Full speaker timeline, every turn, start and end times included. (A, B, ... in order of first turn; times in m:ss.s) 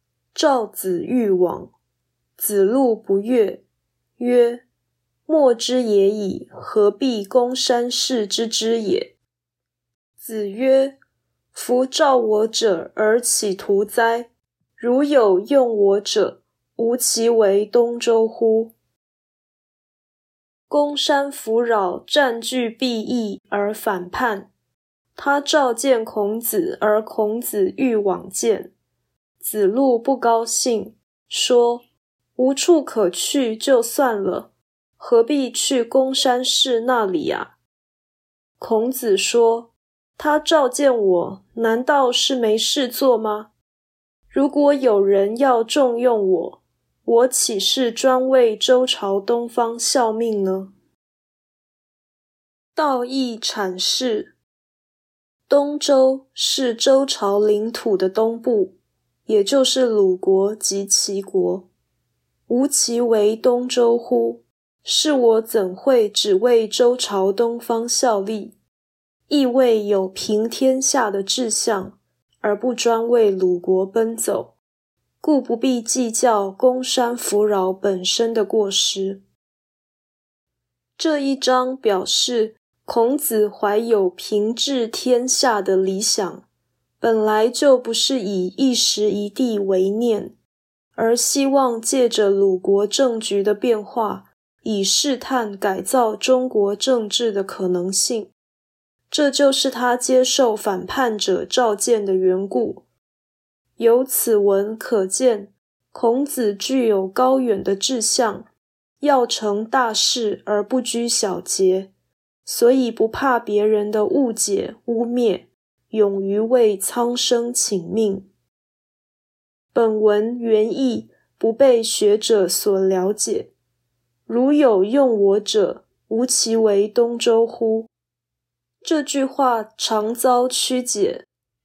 0:00.3-0:01.7 A
0:02.4-0:03.6 A
0:04.2-0:04.6 A
0:05.3-0:09.1 A
0:10.2-0:11.0 A
0:11.5-0:18.7 A
0:20.7-0:24.5 A
0:25.2-0:28.7 A
0:29.4-0:31.8 A
0:32.4-0:37.5 A
0:38.6-0:43.5 A
0:44.3-0:50.7 A
0:52.7-0:54.3 A
0:55.5-1:01.7 A
1:02.5-1:08.6 A
1:09.3-1:14.6 A
1:15.2-1:19.2 A
1:21.0-1:26.4 A
1:27.0-1:30.4 A
1:31.0-1:38.3 A
1:39.1-1:42.8 A
1:43.8-1:48.5 A
1:49.0-1:51.9 A
1:52.4-1:58.3 A
1:59.7-2:03.5 A
2:04.3-2:07.9 A
2:08.8-2:11.2 A